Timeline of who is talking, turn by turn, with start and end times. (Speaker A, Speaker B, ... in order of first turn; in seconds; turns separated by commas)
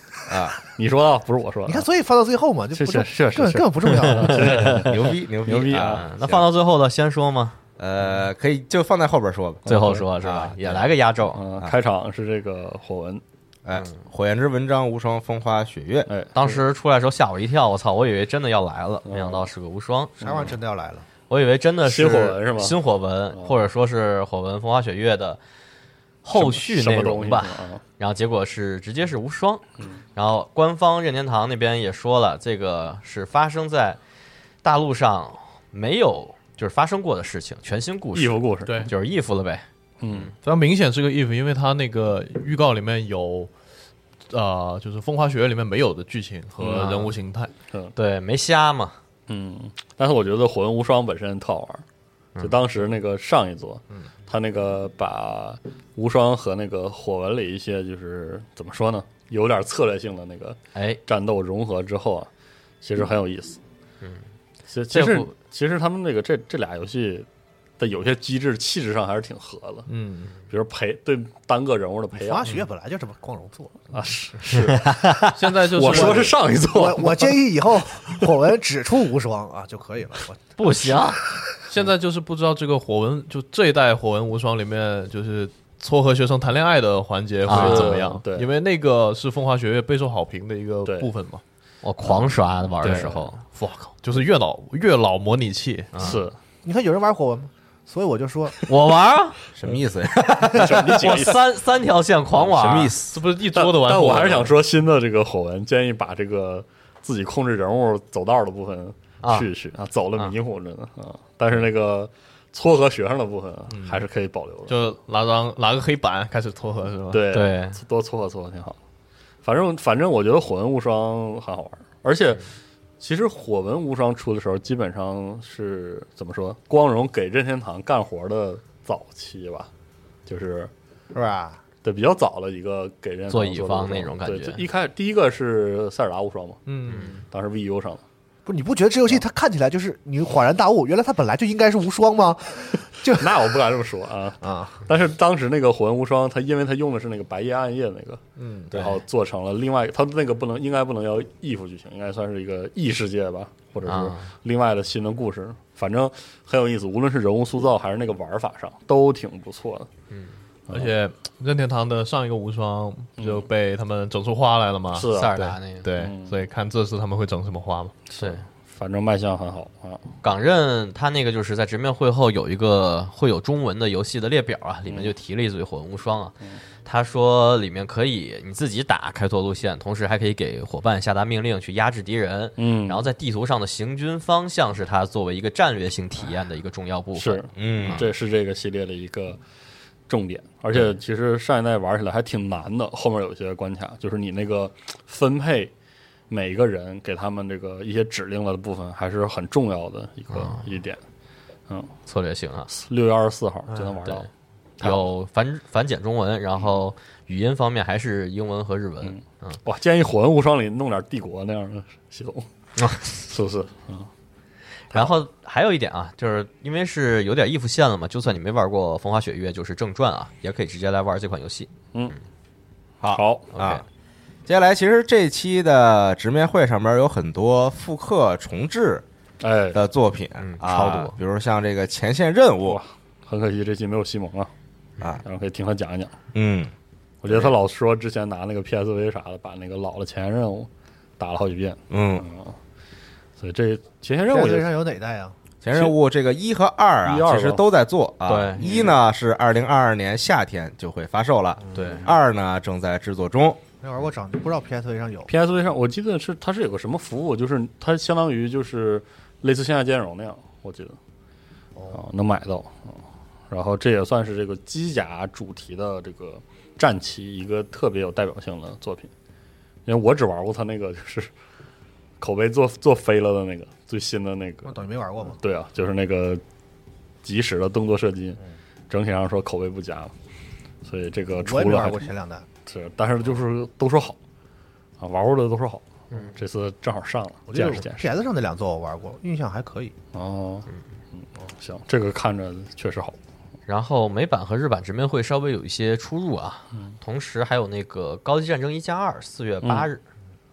Speaker A: 0.3-0.6, Speaker B: 0.8-1.9, Speaker C: 1.7-4.8, Speaker B: 2.7-6.0, Speaker D: 4.3-4.8, Speaker A: 4.8-6.5, Speaker D: 5.9-7.6, Speaker A: 7.8-10.9, Speaker B: 9.7-10.1, Speaker D: 9.7-11.4, Speaker B: 11.4-13.2, Speaker A: 13.7-16.1, Speaker B: 16.1-16.6, Speaker D: 16.3-20.1, Speaker B: 19.1-19.5, Speaker B: 20.2-20.5, Speaker C: 20.2-21.1, Speaker D: 21.3-25.4, Speaker B: 21.9-22.8, Speaker D: 26.2-29.6, Speaker B: 26.3-27.8, Speaker D: 30.2-34.0, Speaker D: 34.6-39.6, Speaker B: 38.1-38.9, Speaker E: 38.7-38.9, Speaker B: 40.0-40.3, Speaker E: 40.4-43.5, Speaker E: 44.3-47.5, Speaker D: 46.6-47.1, Speaker D: 48.0-49.0, Speaker B: 49.3-51.8, Speaker B: 52.4-62.3, Speaker D: 60.7-61.0, Speaker B: 62.8-63.6, Speaker B: 64.7-67.3, Speaker D: 64.9-65.3, Speaker B: 67.8-69.9, Speaker E: 69.9-70.3, Speaker B: 70.5-72.6, Speaker C: 72.2-73.9, Speaker B: 73.9-75.0, Speaker D: 74.4-75.4, Speaker E: 75.3-76.4, Speaker B: 75.6-78.3, Speaker C: 75.9-81.2, Speaker D: 80.6-81.2, Speaker E: 81.7-91.4, Speaker D: 87.5-88.0, Speaker B: 87.5-88.5, Speaker B: 90.8-91.1, Speaker D: 91.8-93.4, Speaker E: 92.8-96.1, Speaker B: 92.8-93.3, Speaker D: 95.9-96.2, Speaker B: 96.0-96.4, Speaker C: 96.6-98.6, Speaker D: 98.6-99.4, Speaker A: 99.5-101.2, Speaker B: 100.5-101.5, Speaker D: 100.7-103.0, Speaker A: 102.4-103.2, Speaker E: 103.1-104.6, Speaker B: 103.5-114.8, Speaker D: 109.2-109.5, Speaker E: 113.7-114.0, Speaker E: 114.7-117.3, Speaker B: 117.1-118.8, Speaker D: 117.3-117.8, Speaker B: 119.4-122.4, Speaker B: 123.0-129.7, Speaker B: 130.3-130.7, Speaker C: 131.1-131.6, Speaker B: 131.8-138.0, Speaker D: 133.3-134.6, Speaker E: 136.7-137.2, Speaker D: 136.9-137.2, Speaker C: 138.4-143.5, Speaker B: 143.2-159.9, Speaker C: 144.4-144.8, Speaker E: 148.4-148.9, Speaker D: 148.7-149.0, Speaker D: 153.8-154.3, Speaker B: 160.7-160.9, Speaker E: 160.7-168.0, Speaker B: 163.2-163.5, Speaker B: 164.9-165.4, Speaker D: 164.9-165.9, Speaker B: 166.0-166.4, Speaker B: 168.2-170.1, Speaker D: 168.2-168.4, Speaker D: 170.2-176.3, Speaker D: 176.8-188.0, Speaker B: 182.6-183.1, Speaker B: 187.2-189.4, Speaker A: 187.6-188.1, Speaker B: 190.1-195.7, Speaker B: 196.3-201.0, Speaker D: 200.3-200.6, Speaker D: 202.1-202.7, Speaker B: 202.7-204.3, Speaker C: 203.7-204.0, Speaker D: 204.8-209.6, Speaker B: 204.8-205.1, Speaker B: 209.0-212.5, Speaker D: 212.8-213.2, Speaker B: 213.2-214.1, Speaker B: 214.9-215.2, Speaker D: 214.9-221.7, Speaker A: 223.0-223.8, Speaker B: 223.1-223.5, Speaker D: 223.5-223.8, Speaker A: 224.5-229.1, Speaker B: 229.4-229.8, Speaker A: 229.7-232.8, Speaker D: 230.4-231.2, Speaker B: 232.7-234.5, Speaker B: 235.2-236.1, Speaker A: 236.3-236.7, Speaker B: 237.2-242.6, Speaker A: 237.3-237.6, Speaker A: 241.9-242.3, Speaker B: 243.4-244.8, Speaker C: 244.3-245.3, Speaker A: 245.6-253.6, Speaker B: 247.1-247.7, Speaker D: 248.3-248.6, Speaker B: 248.6-249.0, Speaker D: 251.8-252.1, Speaker C: 253.8-255.3, Speaker B: 255.3-261.0, Speaker B: 261.9-263.0, Speaker B: 263.5-269.1, Speaker B: 269.9-271.3, Speaker B: 272.2-274.9, Speaker C: 274.7-275.4, Speaker B: 275.4-276.4, Speaker B: 277.2-280.1, Speaker B: 280.9-282.1, Speaker C: 281.4-282.5, Speaker B: 282.7-284.2, Speaker B: 285.0-288.1, Speaker C: 287.5-289.9, Speaker B: 290.1-293.2, Speaker D: 293.7-300.0, Speaker B: 299.6-299.9